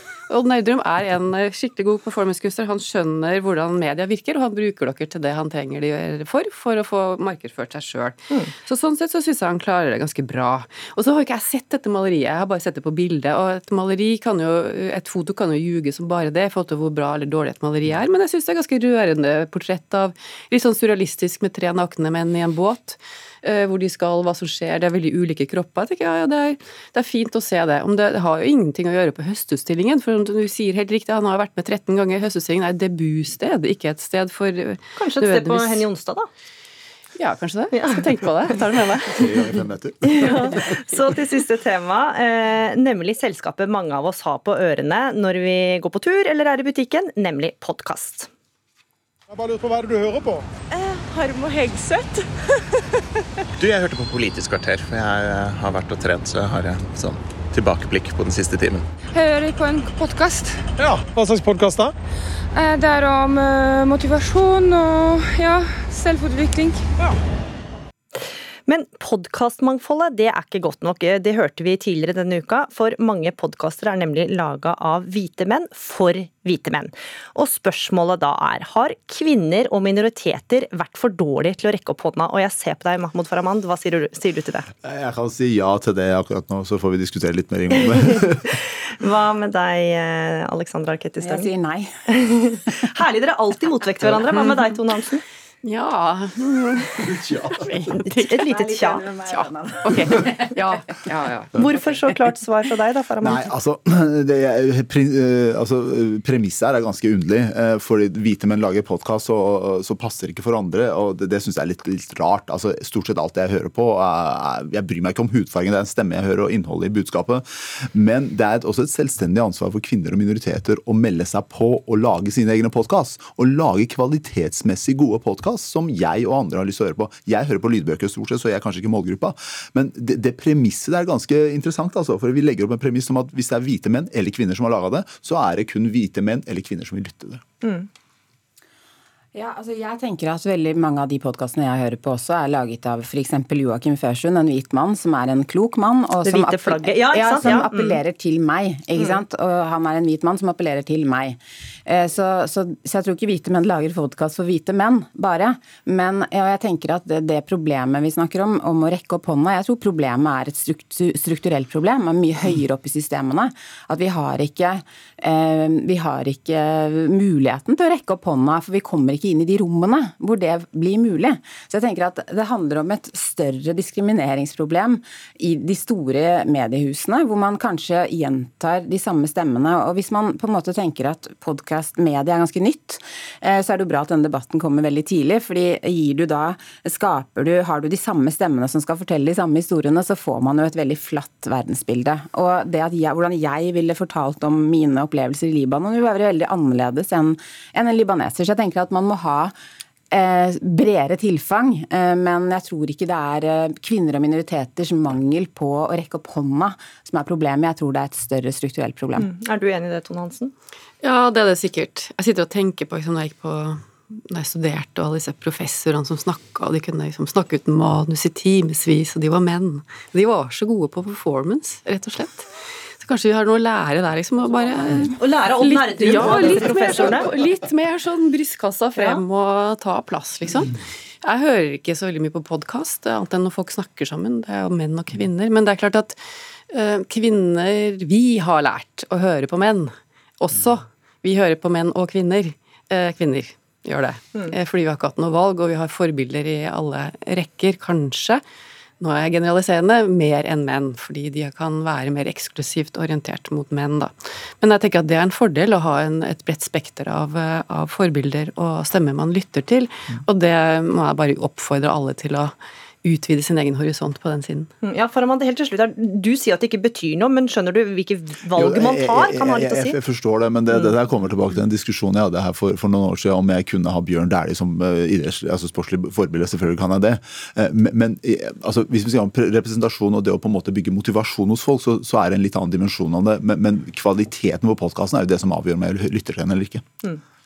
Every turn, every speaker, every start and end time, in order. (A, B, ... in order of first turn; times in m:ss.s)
0:00.3-0:35.8 A
0:35.0-0:36.3 B
0:37.2-0:39.6 A
0:39.1-0:40.8 C
0:40.0-0:48.3 B
0:49.3-0:50.4 D
0:51.1-0:52.0 B
0:53.6-0:58.8 E
0:59.1-1:00.6 F
1:00.8-1:01.9 D
1:02.5-1:06.8 F
1:08.7-1:24.7 B
1:24.8-1:28.4 C
1:29.0-1:31.5 B
1:31.2-1:32.0 G
1:32.1-1:35.2 B
1:35.6-1:38.4 A
1:37.0-1:37.8 C
1:38.0-1:39.1 B
1:38.3-1:40.8 G
1:39.2-1:41.7 A
1:41.6-1:43.5 B
1:43.2-2:17.4 C
2:17.6-2:17.9 B
2:19.3-3:19.5 G
2:26.2-2:28.0 B
2:29.0-2:29.2 B
3:20.1-3:29.3 G
3:29.2-3:30.5 B
3:31.0-3:42.5 A
3:43.0-3:56.2 A
3:45.2-3:47.3 B
3:56.7-4:08.4 A
4:09.0-4:22.5 A
4:23.0-4:24.7 A
4:24.8-4:30.0 B
4:28.5-4:46.8 C